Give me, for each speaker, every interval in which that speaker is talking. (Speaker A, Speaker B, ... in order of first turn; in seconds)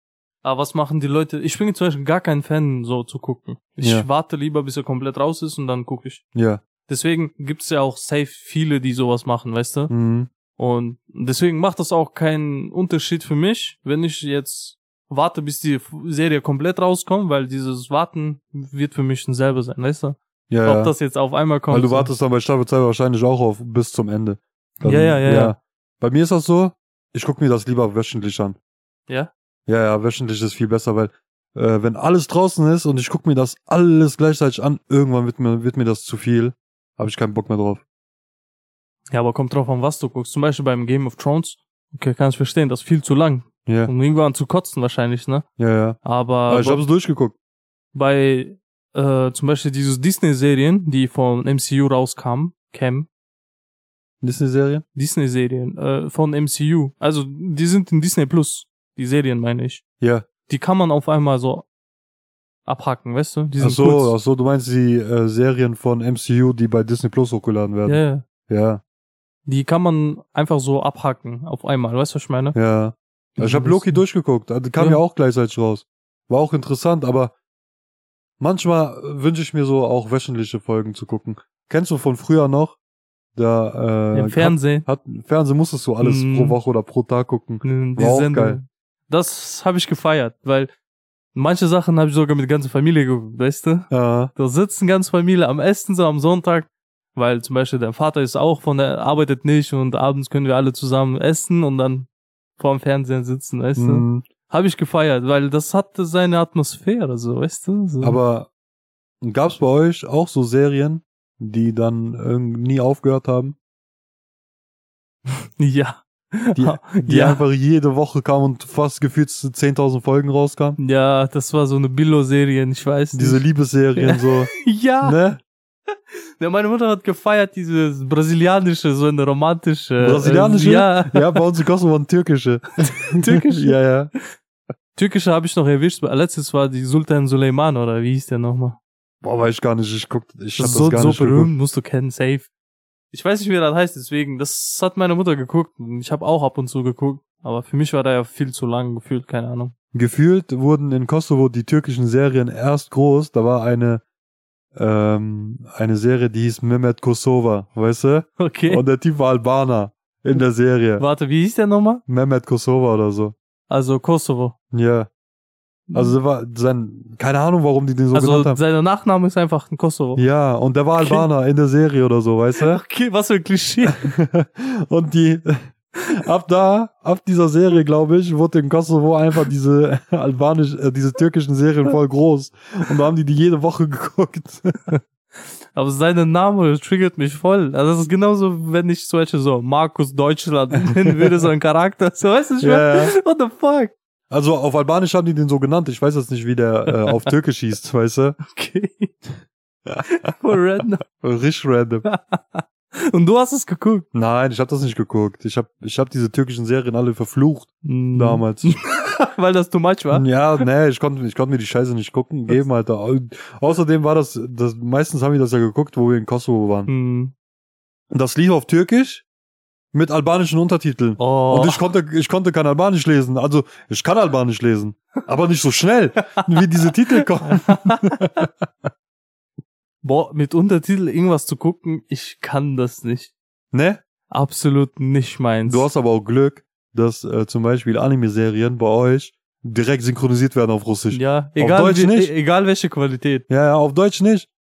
Speaker A: 0.4-6.2, 6.9-9.9, 10.6-22.1, 24.8-25.6, 39.1-45.5, 46.0-46.8, 47.9-53.1, 54.9-59.8, 60.5-61.6, 62.6-64.1, 67.9-68.2, 69.5-72.5, 73.4-74.0, 84.1-84.9, 86.0-86.6, 87.6-90.7, 91.3-108.2, 115.6-117.4, 120.8-123.4, 124.0-125.2, 125.9-131.4, 133.2-133.7, 134.9-138.8, 140.6-142.5, 143.1-149.7, 158.4-158.8, 161.0-162.0, 163.7-164.5, 165.9-166.2, 168.1-170.2, 171.0-171.2, 172.6-174.0, 185.7-193.9, 196.9-197.3, 198.4-199.1, 200.2-201.0, 202.0-204.1, 207.8-210.7, 216.9-217.3, 221.2-221.8, 227.5-228.1, 230.0-233.3, 234.3-235.9, 241.1-243.4
Speaker B: 3.8-4.1, 6.3-6.6, 9.9-10.3, 20.5-20.9, 21.7-28.6, 29.7-37.8, 43.6-43.9, 45.6-47.3, 54.2-54.8, 60.0-60.2, 63.6-68.8, 72.5-77.3, 78.4-82.8, 83.3-88.6, 93.9-94.3, 103.8-104.2, 108.0-108.5, 109.2-113.5, 116.5-120.8, 123.1-125.4, 130.0-134.1, 139.2-141.5, 149.9-154.0, 154.7-161.0, 162.1-163.3, 164.7-165.1, 165.9-168.6, 170.2-172.8, 173.9-184.7, 192.6-193.1, 194.3-198.4, 201.2-202.1, 204.1-208.7, 210.1-216.9, 218.1-219.2, 219.9-228.5, 233.7-234.0, 235.7-242.3, 243.5-244.5